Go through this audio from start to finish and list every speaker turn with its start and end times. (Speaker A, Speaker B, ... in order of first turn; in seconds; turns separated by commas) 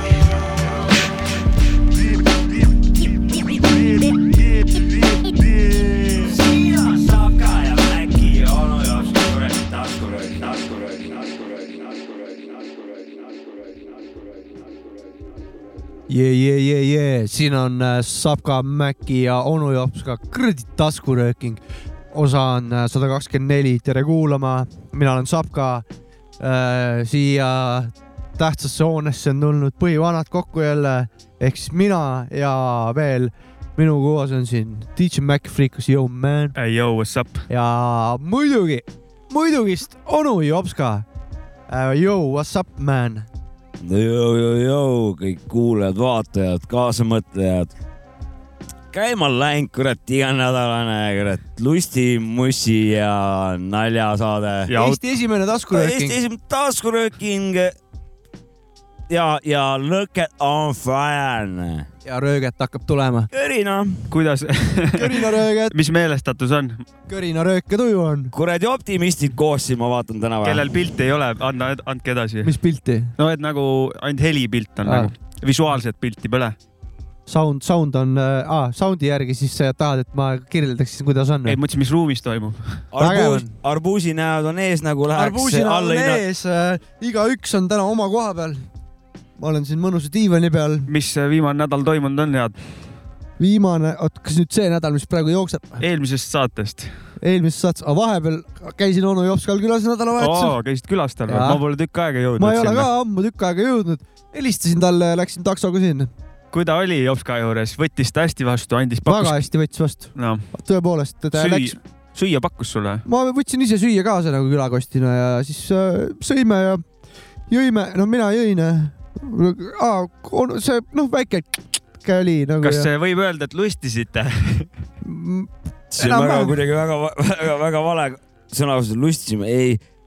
Speaker A: 4.7-12.2, Speaker B: 16.1-21.6, Speaker B: 22.1-25.9, Speaker B: 26.4-36.5, Speaker C: 36.6-37.5, Speaker B: 37.5-41.0, Speaker B: 41.7-43.3, Speaker A: 43.8-47.7, Speaker A: 48.9-54.7, Speaker C: 54.7-55.0, Speaker B: 54.7-56.2, Speaker A: 55.7-57.8, Speaker A: 59.1-61.9, Speaker B: 62.0-63.3, Speaker A: 63.3-64.1, Speaker C: 64.1-66.8, Speaker B: 65.0-65.8, Speaker B: 67.1-68.3, Speaker A: 68.3-70.6, Speaker C: 70.4-72.6, Speaker B: 72.4-73.1, Speaker C: 73.2-76.5, Speaker B: 74.8-75.1, Speaker B: 77.3-81.6, Speaker C: 81.5-82.8, Speaker A: 82.9-86.2, Speaker B: 83.0-83.5, Speaker B: 85.2-88.7, Speaker B: 89.4-90.9, Speaker C: 90.9-92.6, Speaker B: 93.4-95.8, Speaker C: 95.8-96.9, Speaker B: 97.2-100.6, Speaker C: 100.2-102.9, Speaker B: 101.3-101.6, Speaker B: 102.4-106.1, Speaker C: 106.5-109.5, Speaker B: 109.1-111.8, Speaker C: 110.2-110.4, Speaker C: 111.3-113.0, Speaker B: 113.1-116.8, Speaker B: 117.5-122.9, Speaker C: 122.6-124.7, Speaker B: 125.0-126.6, Speaker A: 125.9-129.8